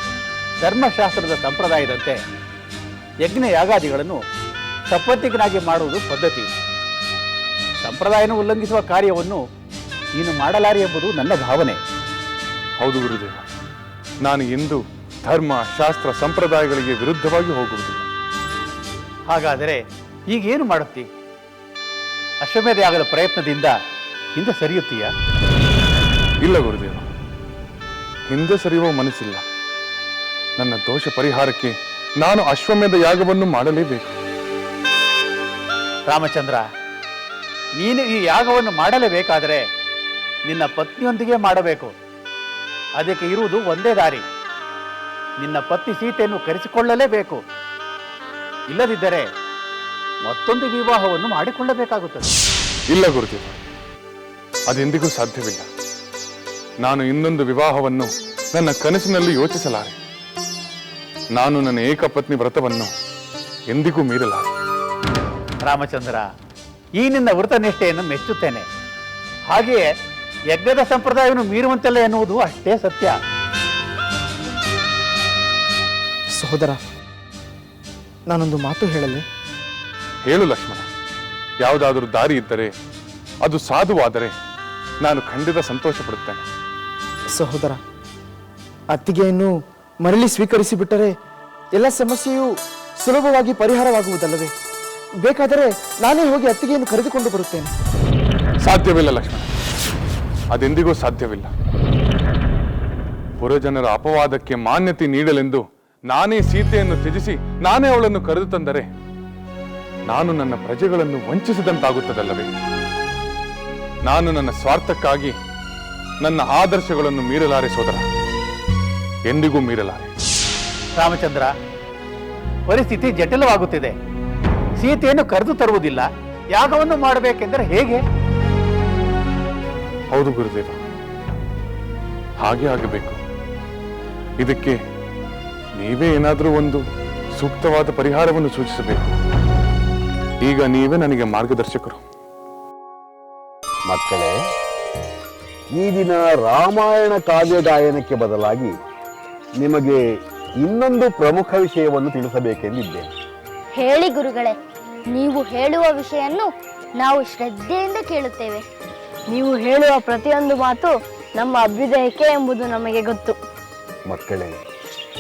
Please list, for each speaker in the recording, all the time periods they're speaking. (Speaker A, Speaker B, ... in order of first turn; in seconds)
Speaker A: 0.6-2.2, 3.2-4.2, 4.9-6.5, 7.8-9.4, 10.2-11.8, 19.3-21.1, 22.4-23.8, 24.4-25.1, 36.1-36.6, 37.8-39.6, 40.5-42.0, 43.0-44.2, 45.4-47.4, 48.7-49.3, 50.2-52.3, 65.7-66.3, 67.0-68.7, 69.5-69.9, 70.5-73.2, 121.0-121.5, 122.7-123.9, 124.8-128.0
Speaker B: 12.8-13.4, 14.2-18.1, 26.4-27.1, 28.3-29.4, 30.6-34.1, 52.9-53.6, 54.7-55.7, 56.8-60.0, 61.4-62.9, 63.7-64.5, 80.3-80.9, 81.6-82.7, 83.5-84.3, 85.0-86.4, 98.6-99.5, 100.5-101.5, 103.4-108.9, 110.1-112.5, 114.1-115.3, 116.2-118.0, 119.3-120.1, 130.1-130.8, 132.4-133.2, 134.4-134.8, 135.8-136.8, 137.4-139.1, 140.4-142.0
Speaker C: 78.5-78.8, 87.4-87.8, 88.9-89.5, 90.0-91.1, 91.8-92.5, 93.0-94.5, 95.2-97.7
Speaker D: 143.9-144.3, 145.8-148.7, 149.6-150.0, 150.6-153.1, 164.1-164.6
Speaker E: 153.8-154.6, 155.1-158.6
Speaker F: 159.3-163.4